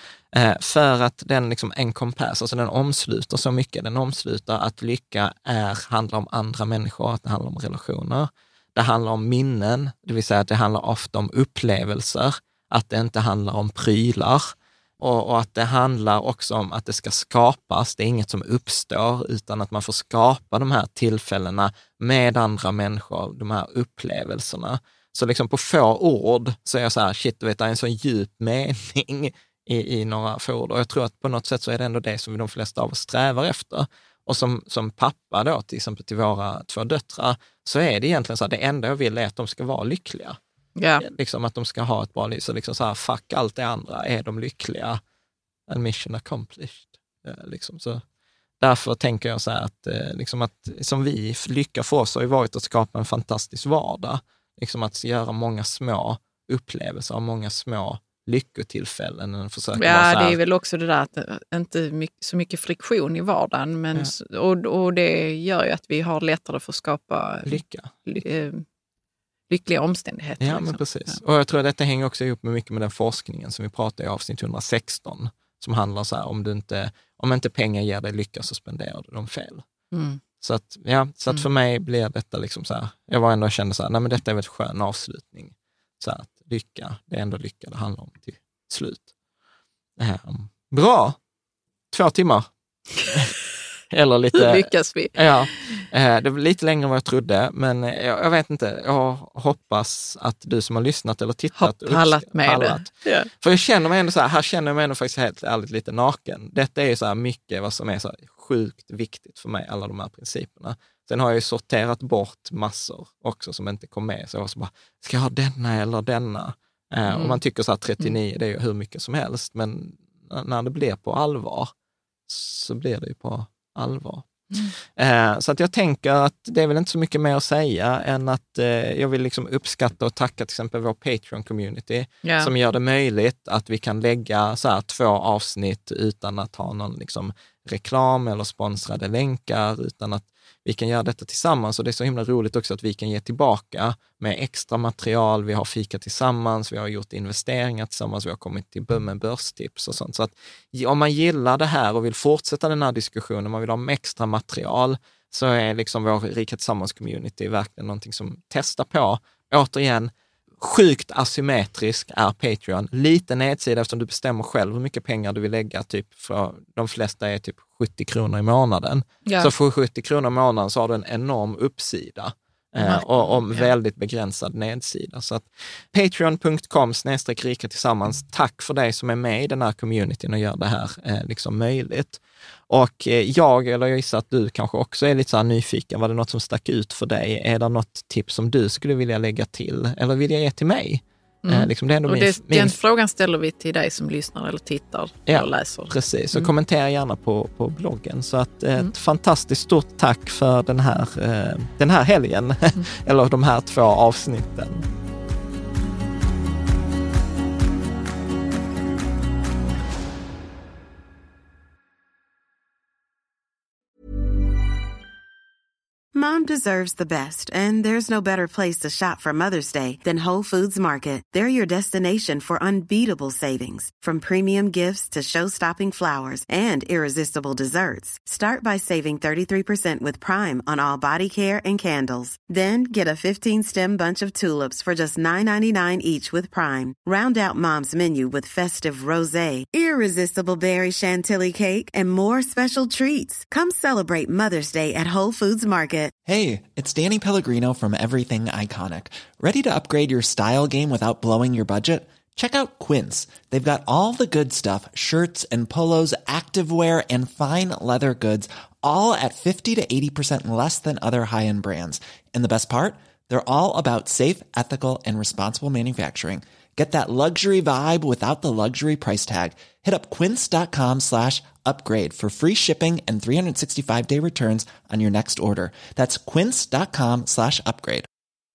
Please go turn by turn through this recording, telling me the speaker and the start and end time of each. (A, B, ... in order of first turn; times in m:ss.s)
0:00.3-0:40.4 A
0:40.8-0:41.0 B
0:41.0-0:45.0 A
0:45.7-0:48.0 A
0:48.6-1:00.4 A
0:59.8-1:08.6 B
1:07.5-1:07.9 A
1:09.5-1:11.2 B
1:10.4-1:19.6 A
1:19.9-1:20.2 B
1:20.4-1:29.1 A
1:30.0-1:31.2 A
1:31.9-1:32.5 A
1:33.9-2:01.7 A
1:34.3-1:35.8 B
1:41.6-1:43.3 B
1:57.1-1:57.4 B
2:02.3-2:04.3 A
2:04.9-3:12.8 A
2:12.2-2:12.5 B
2:49.2-2:49.5 B
2:52.8-2:53.7 B
3:11.4-3:16.5 B
3:15.3-3:24.8 A
3:36.1-4:06.1 C
4:06.3-4:38.1 D